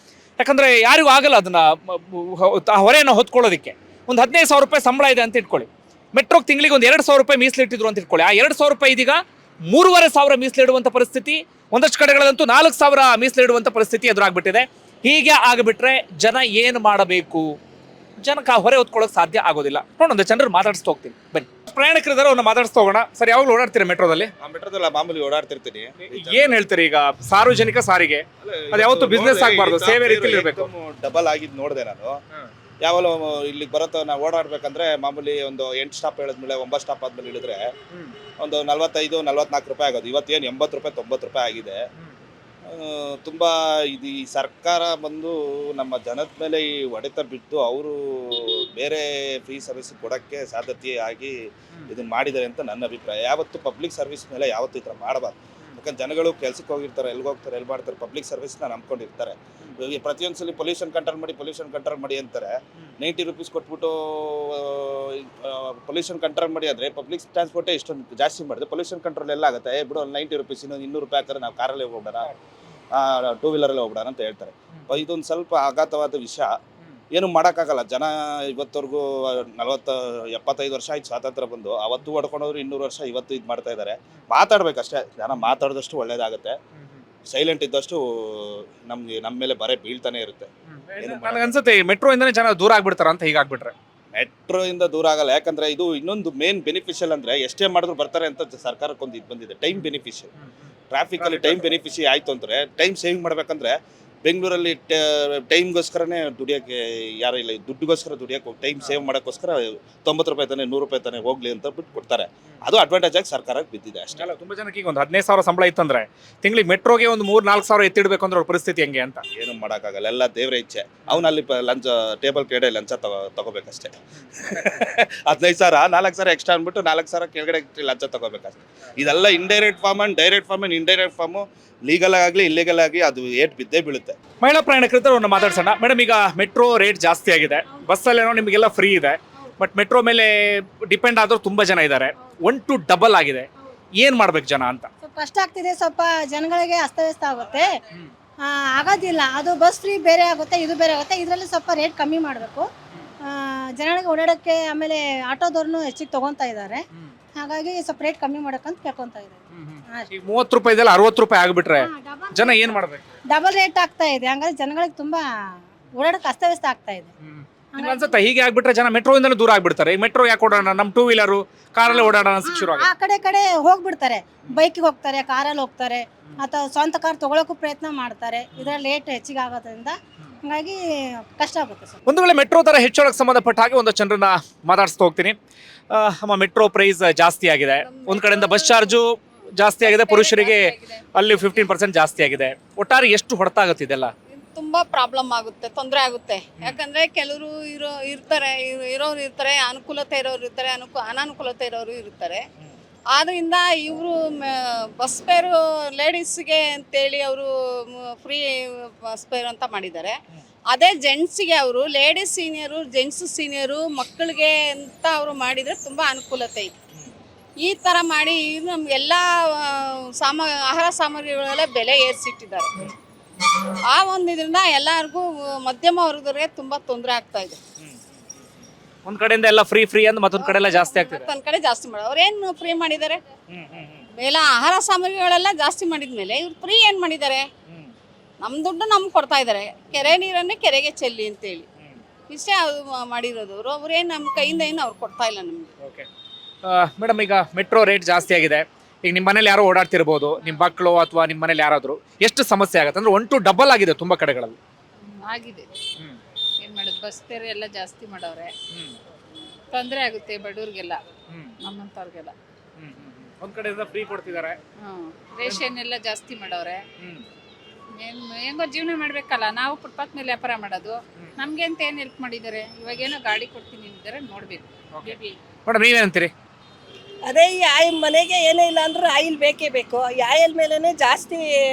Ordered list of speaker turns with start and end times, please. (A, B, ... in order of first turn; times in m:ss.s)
0:00.4-0:17.5 A
0:18.2-0:24.3 A
0:24.4-0:26.4 B
0:26.0-0:30.7 A
0:28.4-0:32.2 B
0:32.8-0:37.7 B
0:38.4-0:41.8 B
0:42.6-0:51.4 B
0:51.9-1:12.3 B
1:12.9-1:16.6 B
1:17.1-1:26.6 B
1:27.3-1:30.5 B
1:30.7-1:33.7 A
1:31.0-1:31.5 B
1:34.1-1:40.3 B
1:40.9-1:54.3 B
1:41.2-1:41.6 A
1:54.1-1:59.2 A
1:59.3-2:14.2 B
2:14.4-2:24.9 A
2:25.0-2:27.7 C
2:28.4-2:32.7 C
2:33.2-2:36.8 C
2:37.4-2:40.1 C
2:39.5-2:43.1 A
2:41.8-2:45.2 C
2:45.9-2:47.1 C
2:47.2-2:52.9 A
2:47.7-2:48.2 C
2:51.8-3:02.0 C
3:02.0-3:05.3 A
3:05.9-3:14.1 A
3:07.8-3:09.0 D
3:09.8-3:11.7 D
3:14.3-3:22.4 D
3:23.1-3:30.2 D
3:30.7-3:36.7 D
3:37.6-3:42.9 D
3:43.9-3:47.6 D
3:49.0-3:51.3 A
3:50.4-3:53.2 D
3:53.5-3:54.1 A
3:54.1-3:57.5 D
3:58.4-4:01.6 D
4:02.3-4:05.7 D
4:05.8-4:06.1 A
4:06.6-4:14.6 A
4:15.2-4:15.7 E
4:16.6-4:18.5 E
4:19.7-4:21.0 E
4:21.3-4:21.5 A
4:21.6-4:22.3 E
4:22.8-4:24.6 A
4:24.9-4:26.8 E
4:27.0-4:27.2 A
4:28.0-4:35.4 E
4:34.9-4:36.3 A
4:37.2-4:41.4 B